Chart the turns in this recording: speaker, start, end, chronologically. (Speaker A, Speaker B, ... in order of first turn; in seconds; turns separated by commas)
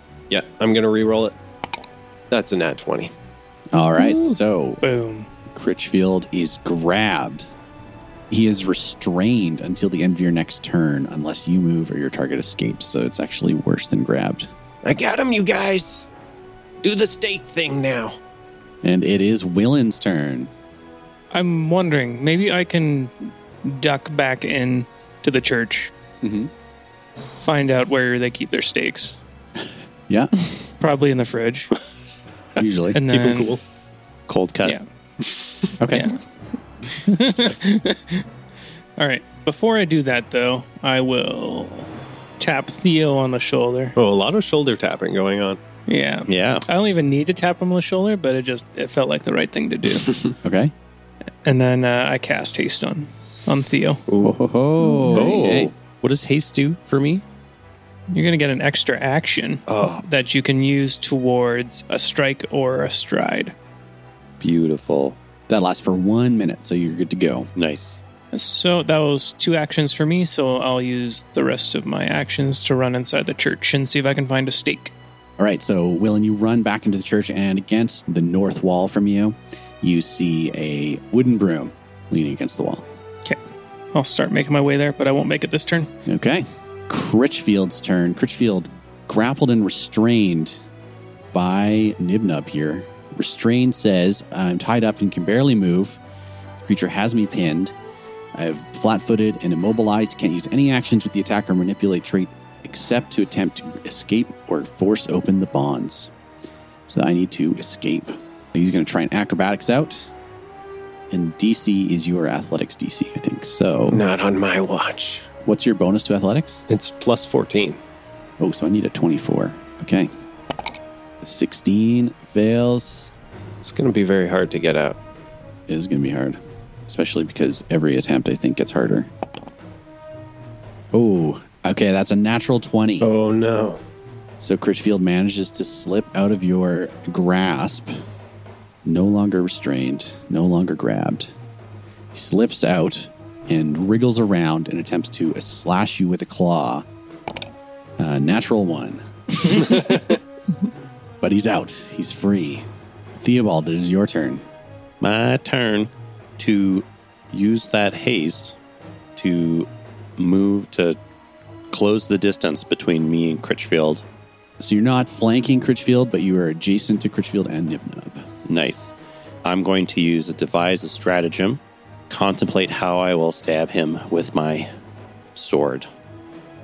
Speaker A: 0.3-1.3, Speaker A: 2.3-3.1, Speaker B: 3.7-4.8, Speaker C: 4.0-5.3, Speaker B: 5.5-7.5, Speaker B: 8.3-14.5, Speaker A: 14.8-16.1, Speaker A: 16.8-18.2, Speaker B: 18.8-20.5, Speaker C: 21.3-25.9, Speaker B: 26.2-26.5, Speaker C: 27.4-29.2, Speaker C: 30.8-31.7, Speaker B: 32.6-33.0, Speaker C: 32.9-33.5, Speaker A: 33.1-33.6, Speaker D: 34.3-34.8, Speaker B: 35.8-36.1, Speaker C: 35.9-36.1, Speaker C: 37.0-38.2, Speaker C: 39.0-43.9, Speaker A: 44.0-45.6, Speaker C: 45.9-50.2, Speaker D: 46.3-46.6, Speaker B: 50.4-50.7, Speaker C: 51.4-54.0, Speaker A: 54.1-54.4, Speaker B: 54.2-55.7, Speaker C: 55.0-55.7, Speaker D: 55.1-57.2, Speaker C: 58.1-63.5, Speaker D: 59.7-60.0, Speaker D: 64.4-65.2, Speaker B: 65.5-67.5, Speaker D: 67.5-68.0, Speaker C: 68.3-74.9, Speaker B: 75.4-82.8, Speaker C: 83.9-85.9, Speaker B: 86.0-90.6, Speaker B: 91.3-96.0, Speaker B: 96.6-97.7, Speaker B: 98.3-106.1, Speaker B: 106.9-110.1, Speaker B: 111.1-114.0, Speaker A: 113.9-115.3, Speaker B: 115.4-116.6, Speaker A: 116.7-117.8, Speaker B: 118.4-120.1, Speaker B: 121.2-123.1, Speaker A: 123.6-125.0, Speaker B: 125.7-129.1, Speaker B: 130.9-133.1, Speaker A: 133.0-133.8, Speaker B: 134.4-138.0, Speaker B: 138.8-141.3, Speaker B: 142.1-146.8, Speaker B: 148.0-149.0, Speaker B: 151.2-152.6, Speaker B: 153.2-154.4, Speaker D: 155.0-158.6, Speaker D: 159.2-161.0, Speaker D: 161.7-164.0, Speaker B: 164.6-168.2, Speaker D: 168.5-174.7, Speaker D: 175.3-175.9